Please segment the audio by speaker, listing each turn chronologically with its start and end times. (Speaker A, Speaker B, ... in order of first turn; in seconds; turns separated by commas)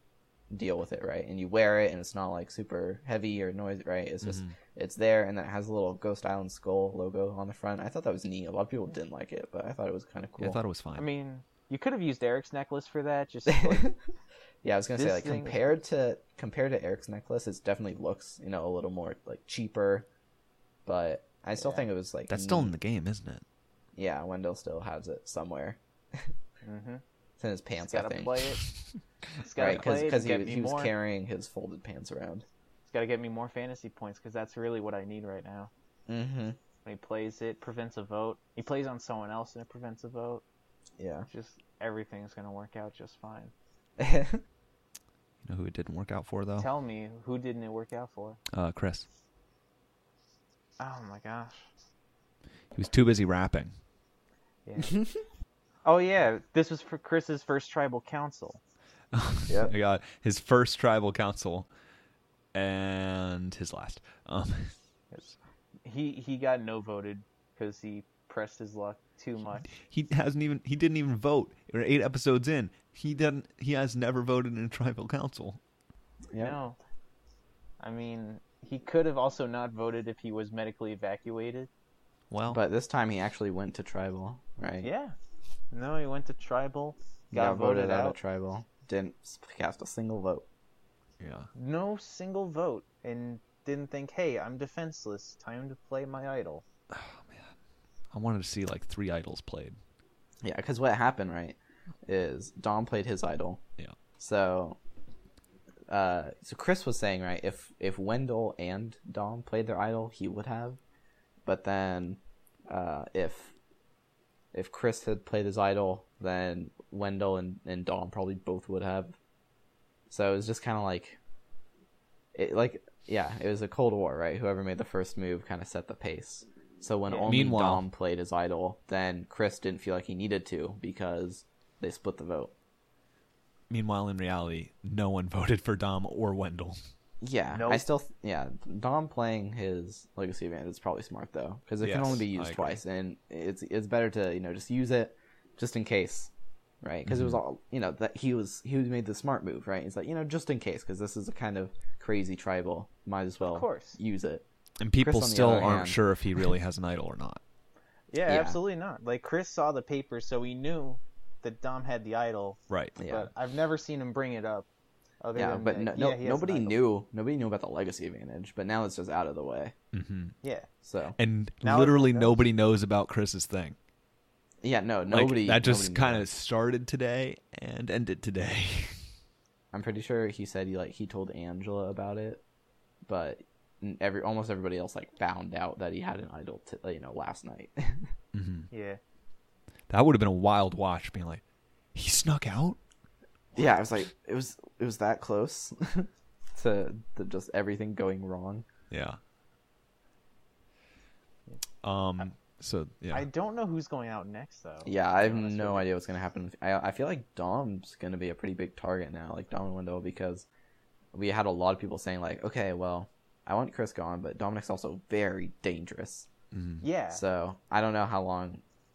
Speaker A: 0.5-10.6, Speaker B: 4.2-4.5, Speaker B: 10.4-11.1, Speaker C: 11.0-13.9, Speaker A: 13.5-13.9, Speaker A: 14.6-20.1, Speaker C: 14.9-15.7, Speaker A: 20.9-22.8, Speaker C: 21.6-21.9, Speaker B: 22.3-23.4, Speaker A: 23.9-26.3, Speaker C: 26.6-27.0, Speaker A: 27.4-28.6, Speaker C: 27.8-28.7, Speaker C: 29.4-30.9, Speaker A: 29.6-32.5, Speaker C: 32.9-35.7, Speaker A: 36.1-36.6, Speaker C: 36.9-40.4, Speaker A: 41.0-41.3, Speaker C: 41.3-43.5, Speaker A: 44.0-44.4, Speaker B: 45.4-46.7, Speaker C: 46.6-48.4, Speaker B: 48.5-49.1, Speaker C: 50.8-51.7, Speaker B: 52.7-53.7, Speaker C: 54.7-55.1, Speaker C: 55.8-58.6, Speaker B: 59.1-61.7, Speaker A: 59.5-59.8, Speaker B: 62.5-64.8, Speaker C: 65.1-69.7, Speaker B: 69.7-75.6, Speaker A: 76.3-76.6, Speaker C: 76.4-76.8, Speaker C: 77.8-81.7, Speaker B: 82.3-82.6, Speaker A: 82.5-84.9, Speaker C: 84.8-85.2, Speaker C: 85.7-88.2, Speaker A: 87.3-90.5, Speaker B: 91.2-91.5, Speaker C: 91.5-96.6, Speaker B: 96.9-97.5, Speaker B: 98.1-99.8, Speaker A: 100.4-103.6, Speaker A: 104.2-104.8, Speaker A: 105.9-110.8, Speaker A: 111.5-113.6, Speaker A: 114.5-119.2, Speaker A: 120.1-121.2, Speaker A: 122.3-132.5, Speaker C: 127.1-127.3, Speaker B: 127.2-127.8, Speaker B: 133.7-136.8, Speaker A: 137.2-154.4, Speaker C: 137.5-137.9, Speaker B: 141.8-142.8, Speaker B: 147.1-147.4, Speaker C: 153.4-154.0, Speaker B: 154.8-157.4, Speaker A: 155.0-156.5, Speaker C: 158.1-164.7, Speaker A: 158.2-158.6, Speaker B: 162.7-162.9, Speaker A: 163.0-163.3, Speaker C: 165.2-166.8, Speaker A: 165.3-169.7, Speaker B: 169.9-170.3, Speaker C: 170.4-170.7, Speaker A: 170.8-171.2, Speaker B: 171.2-173.8, Speaker C: 171.6-172.4, Speaker A: 174.6-176.3, Speaker B: 175.1-178.9, Speaker A: 179.7-182.4, Speaker A: 183.1-188.1, Speaker B: 188.3-188.7, Speaker C: 188.7-189.0, Speaker B: 189.9-191.4, Speaker B: 191.9-192.8, Speaker A: 193.6-198.7, Speaker B: 198.9-199.2, Speaker B: 201.8-203.3, Speaker C: 203.1-205.9, Speaker A: 204.8-210.5, Speaker A: 211.1-216.3, Speaker B: 216.5-216.9, Speaker C: 216.8-217.2, Speaker A: 217.1-218.6